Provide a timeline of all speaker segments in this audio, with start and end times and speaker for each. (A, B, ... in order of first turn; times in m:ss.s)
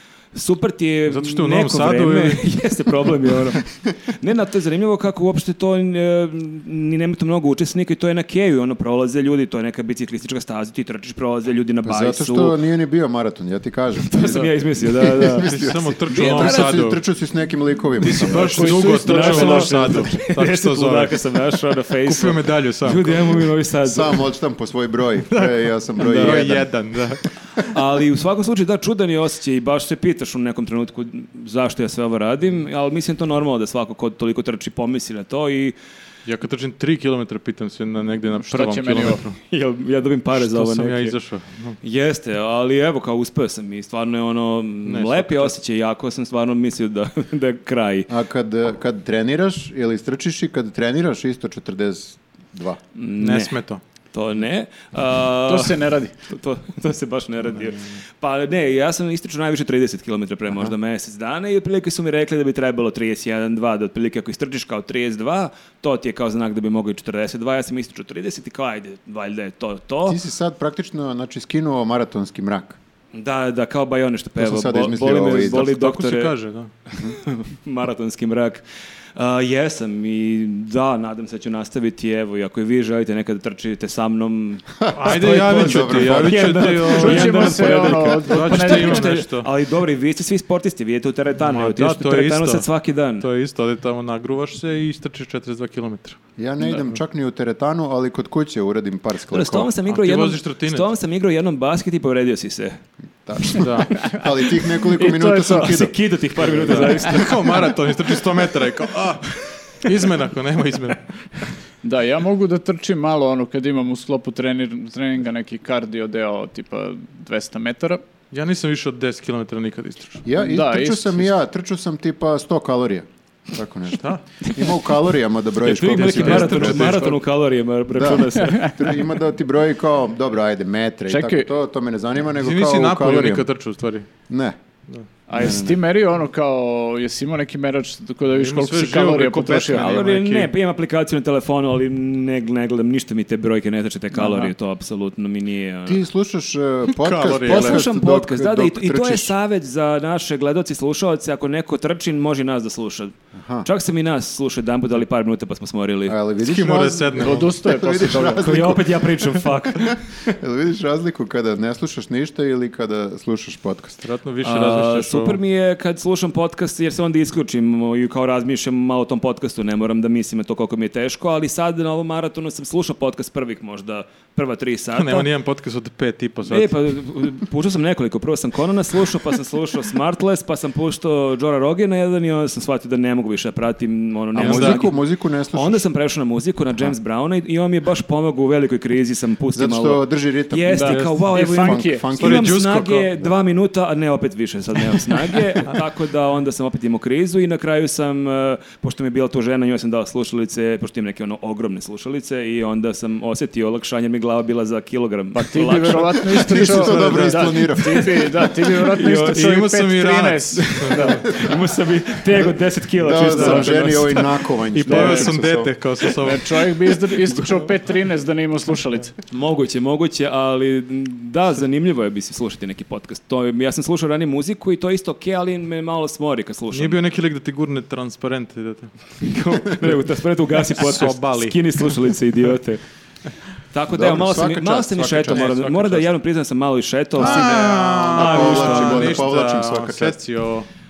0:00.3-0:12.6 A
0:01.1-0:02.4 B
0:11.8-0:18.7 C
0:14.1-0:15.5 A
0:15.4-0:17.0 B
0:16.0-0:16.8 A
0:18.0-0:21.2 B
0:18.0-0:24.2 A
0:18.4-0:20.1 D
0:22.0-0:23.4 B
0:23.8-0:26.7 C
0:25.3-0:27.2 B
0:26.0-0:26.5 A
0:27.7-0:35.7 A
0:36.2-0:39.4 B
0:38.4-0:39.2 D
0:39.5-0:41.2 A
0:40.3-0:41.8 B
0:41.8-0:48.1 A
0:44.8-0:45.5 B
0:48.1-0:52.8 C
0:53.0-0:53.6 A
0:53.2-0:53.8 B
0:54.1-1:10.2 A
0:55.4-0:56.1 D
1:00.5-1:00.7 C
1:10.0-1:12.8 C
1:13.1-1:16.3 A
1:14.4-1:15.7 C
1:15.6-1:16.7 B
1:16.9-1:18.6 A
1:19.2-1:33.3 A
1:24.8-1:26.8 C
1:24.9-1:29.5 B
1:26.9-1:29.1 D
1:31.4-1:32.7 B
1:33.2-1:36.2 B
1:36.4-1:39.7 C
1:39.3-1:42.8 A
1:39.9-1:40.8 B
1:43.2-1:45.9 C
1:43.6-1:43.9 B
1:44.9-1:45.7 D
1:45.6-1:47.7 A
1:46.4-1:51.1 B
1:51.8-1:58.0 D
1:58.3-2:00.2 B
2:00.2-2:07.2 C
2:00.4-2:01.3 D
2:05.6-2:08.9 A
2:05.8-2:07.1 B
2:07.9-2:13.5 C
2:11.1-2:11.5 D
2:12.4-2:14.1 B
2:14.3-2:14.6 C
2:15.3-2:20.0 D
2:15.3-2:15.8 C
2:18.3-2:20.5 B
2:19.7-2:26.0 A
2:25.8-2:29.3 C
2:27.0-2:27.8 B
2:27.4-2:33.1 A
2:33.3-2:33.7 C
2:33.6-2:36.2 A
2:36.1-2:39.0 C
2:36.4-2:37.5 B
2:37.2-2:38.6 D
2:38.4-2:40.0 A
2:39.6-2:44.0 C
2:44.0-2:45.4 B
2:44.4-2:55.3 A
2:54.9-2:56.7 B
2:56.4-3:04.9 A
3:04.3-3:04.8 B
3:04.3-3:05.8 C
3:05.5-3:26.4 A
3:09.5-3:12.6 C
3:10.7-3:12.0 D
3:10.9-3:11.2 B
3:12.2-3:13.1 B
3:25.3-3:31.2 D
3:26.3-3:28.3 C
3:26.5-3:27.6 B
3:28.8-3:29.6 A
3:29.1-3:31.2 B
3:30.8-3:34.2 A
3:33.0-3:35.7 C
3:33.2-3:34.0 D
3:34.8-3:36.5 B
3:34.8-3:35.3 D
3:36.2-3:39.1 D
3:39.3-3:47.0 A
3:46.7-3:48.9 B
3:49.2-3:52.8 A
3:50.8-3:51.6 B
3:53.7-3:59.2 A
3:53.9-3:55.6 C
3:55.3-3:56.1 B
3:57.2-4:00.7 B
3:57.2-4:00.2 C